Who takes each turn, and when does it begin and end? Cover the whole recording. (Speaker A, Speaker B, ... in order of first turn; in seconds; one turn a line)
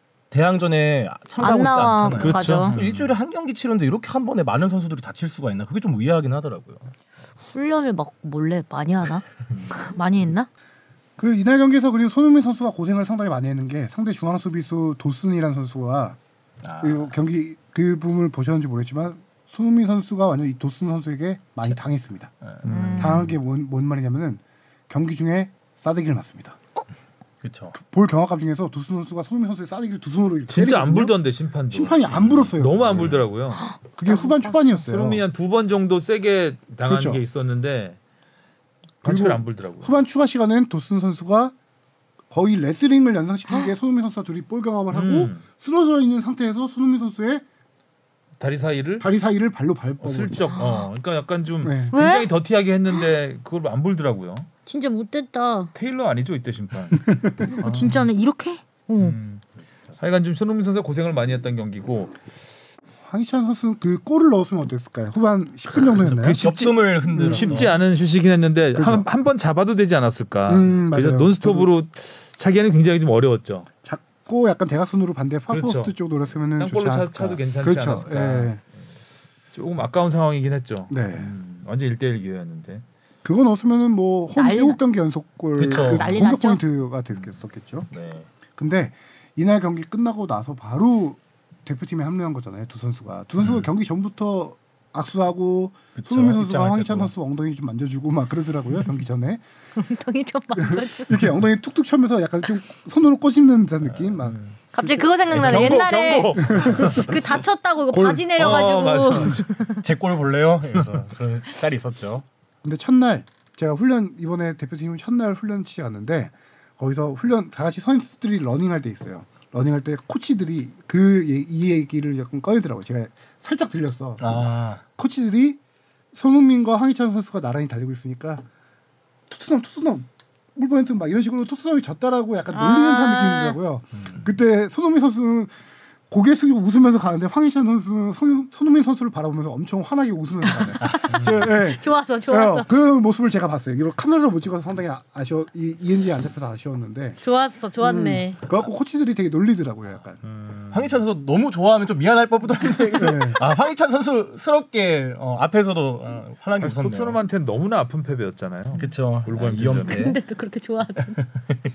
Speaker A: 0.3-6.9
Speaker B: 1.4-2.8
Speaker C: 2.0-3.1
Speaker B: 7.5-10.5
Speaker C: 9.5-9.9
Speaker D: 11.2-16.2
Speaker A: 16.6-17.1
Speaker D: 16.8-22.3
Speaker C: 22.6-23.3
Speaker B: 22.6-23.3
Speaker D: 23.0-26.6
Speaker A: 27.4-27.8
Speaker D: 27.7-31.1
Speaker C: 30.5-33.6
Speaker D: 31.7-33.2
Speaker A: 32.1-32.5
Speaker B: 33.6-34.5
Speaker D: 33.8-35.2
Speaker C: 34.7-38.0
Speaker D: 36.9-37.2
Speaker C: 39.0-40.0
Speaker D: 39.0-41.5
Speaker D: 42.3-47.4
Speaker C: 44.9-45.4
Speaker C: 48.4-49.1
Speaker D: 49.0-50.5
Speaker C: 50.0-54.5
Speaker B: 50.5-50.9
Speaker D: 51.6-51.9
Speaker B: 51.9-52.3
Speaker B: 54.6-55.7
Speaker C: 55.7-58.0
Speaker D: 57.1-57.5
Speaker B: 57.4-59.2
Speaker C: 59.0-59.4
Speaker C: 60.0-62.1
Speaker D: 63.0-66.4
Speaker C: 65.8-73.7
Speaker A: 66.4-67.7
Speaker D: 67.1-67.7
Speaker D: 68.8-69.0
Speaker D: 70.5-71.7
Speaker D: 73.8-78.6
Speaker C: 75.5-75.9
Speaker C: 76.5-78.5
Speaker C: 79.5-82.8
Speaker D: 80.9-81.3
Speaker D: 83.2-87.9
Speaker B: 84.3-84.8
Speaker A: 85.6-86.2
Speaker B: 85.7-86.6
Speaker A: 87.9-88.3
Speaker D: 88.5-99.4
Speaker A: 95.9-97.1
Speaker B: 99.8-101.3
Speaker D: 100.5-107.0
Speaker C: 104.2-104.5
Speaker B: 104.7-109.8
Speaker C: 105.3-107.3
Speaker A: 106.6-106.9
Speaker D: 107.9-108.2
Speaker C: 108.3-109.4
Speaker A: 108.4-112.2
Speaker D: 112.6-125.6
Speaker A: 124.2-124.8
Speaker D: 126.1-128.4
Speaker D: 129.3-135.5
Speaker B: 132.5-133.6
Speaker A: 134.0-134.2
Speaker D: 136.1-147.2
Speaker B: 140.6-142.7
Speaker B: 147.2-148.4
Speaker D: 147.8-150.2
Speaker C: 150.2-151.0
Speaker A: 150.7-157.2
Speaker D: 152.9-153.4
Speaker C: 156.6-160.2
Speaker A: 158.8-160.2
Speaker B: 159.8-161.2
Speaker A: 161.2-161.6